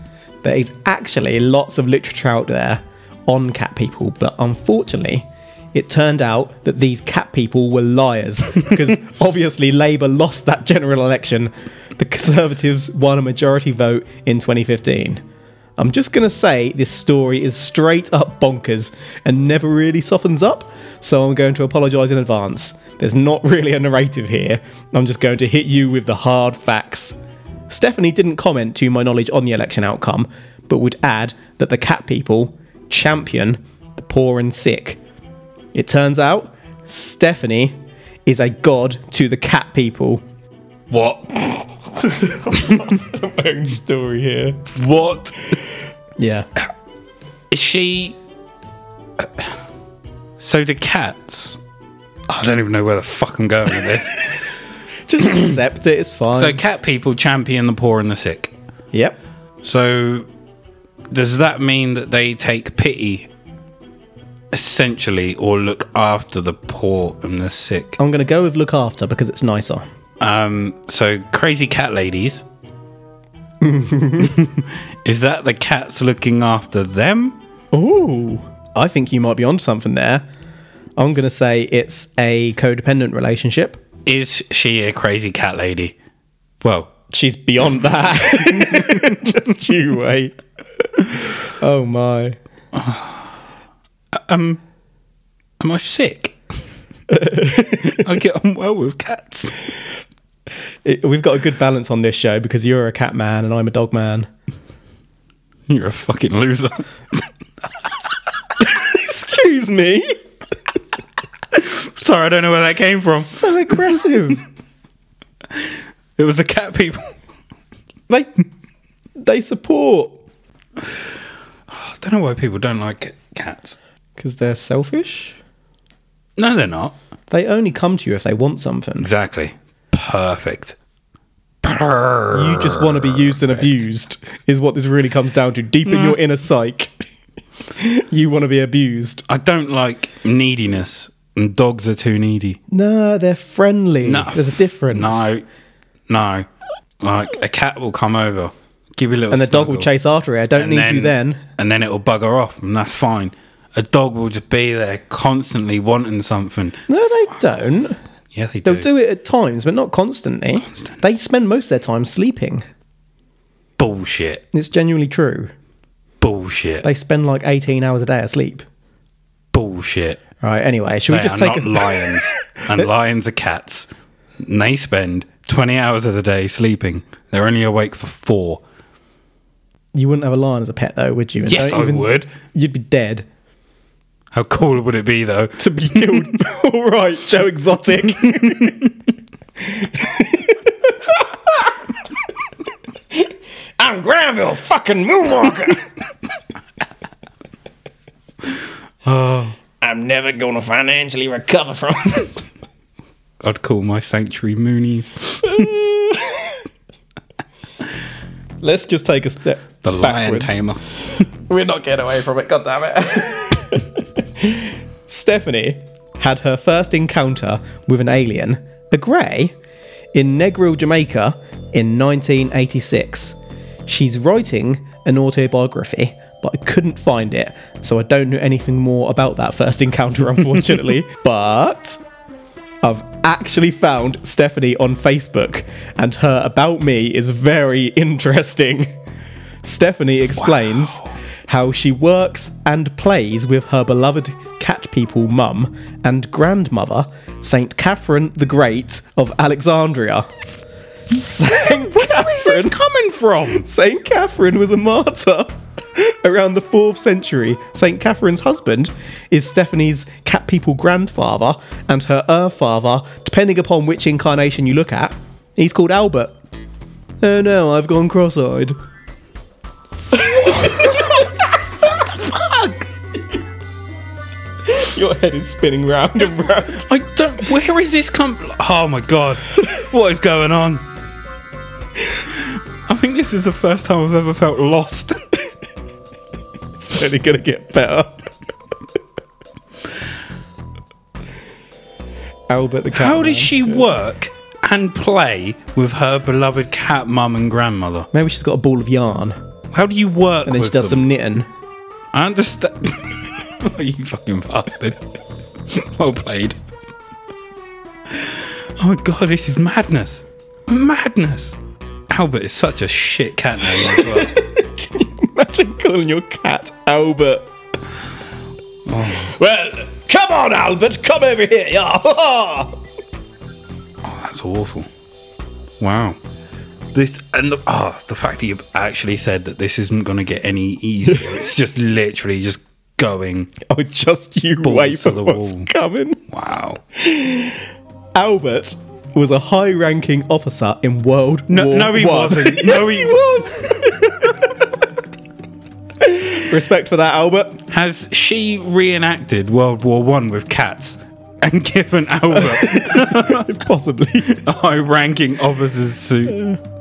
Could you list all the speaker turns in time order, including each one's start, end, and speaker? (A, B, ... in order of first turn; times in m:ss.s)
0:00.4-0:15.2 A
0:15.8-0:27.2 A
0:27.7-0:35.0 A
0:35.7-0:40.2 A
0:40.9-0:41.7 B
0:42.0-0:44.6 A
0:44.7-0:45.4 B
0:46.2-0:46.5 A
0:47.5-0:48.2 B
0:49.2-0:49.5 B
0:50.4-0:51.6 B
0:52.3-0:54.2 B
0:55.1-0:56.6 A
0:56.3-0:58.5 B
0:59.6-1:00.3 B
1:01.1-1:03.3 B
1:04.5-1:08.0 B
1:08.0-1:09.8 A
1:10.2-1:12.4 B
1:13.6-1:14.4 A
1:14.2-1:17.4 B
1:17.7-1:20.2 A
1:21.0-1:23.8 A
1:24.0-1:26.0 B
1:26.6-1:26.9 B
1:27.1-1:30.4 A
1:28.4-1:29.3 B
1:31.4-1:32.4 A
1:32.7-1:33.3 B
1:34.1-1:34.6 B
1:35.6-1:36.4 B
1:37.1-1:38.0 A
1:37.4-1:39.5 B
1:40.8-1:44.3 A
1:45.7-1:47.3 B
1:48.6-1:50.1 A
1:51.5-1:54.0 B
1:53.2-1:54.4 A
1:55.6-1:57.1 B
1:59.2-2:00.2 A
2:01.7-2:03.8 B
2:04.2-2:05.4 A
2:06.4-2:06.9 B
2:07.3-2:09.1 A
2:09.0-2:10.8 B
2:11.6-2:13.8 B
2:12.3-2:16.9 A
2:15.8-2:16.2 B
2:17.8-2:19.2 A
2:19.3-2:22.6 B
2:22.7-2:25.3 A
2:24.0-2:25.4 B
2:26.1-2:26.5 B
2:27.0-2:29.9 B
2:29.3-2:31.4 A
2:30.5-2:36.9 B
2:36.9-2:38.0 A
2:38.3-2:38.9 B
2:38.6-2:42.6 A
2:43.8-2:44.4 B
2:44.5-2:45.5 A
2:46.2-2:46.8 B
2:46.8-2:48.6 A
2:49.5-2:50.2 B
2:50.4-2:52.2 A
2:51.1-2:58.6 B
2:59.9-3:03.2 A
3:01.4-3:02.3 B
3:04.3-3:06.3 B
3:05.6-3:08.9 A
3:08.2-3:08.7 B
3:09.6-3:11.7 A
3:13.8-3:15.9 A
3:19.0-3:19.6 B
3:19.8-3:22.4 A
3:23.4-3:25.7 B
3:25.4-3:26.6 A
3:28.6-3:30.6 A
3:29.8-3:30.8 B
3:31.5-3:39.5 A
3:40.1-3:52.0 A
3:52.8-3:58.9 A
3:59.6-4:10.3 A
4:11.1-4:12.8 A
4:11.7-4:13.6 B
4:13.6-4:26.4 A
4:27.2-4:28.8 A
4:30.1-4:31.3 A
4:30.6-4:30.9 B
4:32.0-4:32.8 B
4:34.6-4:36.8 A
4:36.7-4:40.9 B
4:42.4-4:45.2 B
4:46.8-4:48.2 A
4:52.5-4:53.9 A
4:52.9-4:58.1 B
4:58.1-4:59.4 A
4:59.7-5:01.0 B
5:00.4-5:01.5 A
5:02.1-5:05.0 B
5:05.7-5:06.6 B
5:08.1-5:11.6 B
5:12.1-5:14.3 B
5:13.8-5:17.5 A
5:18.8-5:19.3 B
5:19.1-5:22.8 A
5:24.0-5:24.9 B
5:25.8-5:26.2 B
5:26.9-5:33.5 B
5:33.7-5:36.2 A
5:34.6-5:35.7 B
5:36.3-5:36.8 B
5:37.0-5:37.6 A
5:38.1-5:44.7 A
5:41.5-5:43.3 B
5:46.0-5:47.6 A
5:47.7-5:53.5 B
5:52.3-5:54.4 A
5:54.2-5:56.4 B
5:56.3-5:56.6 A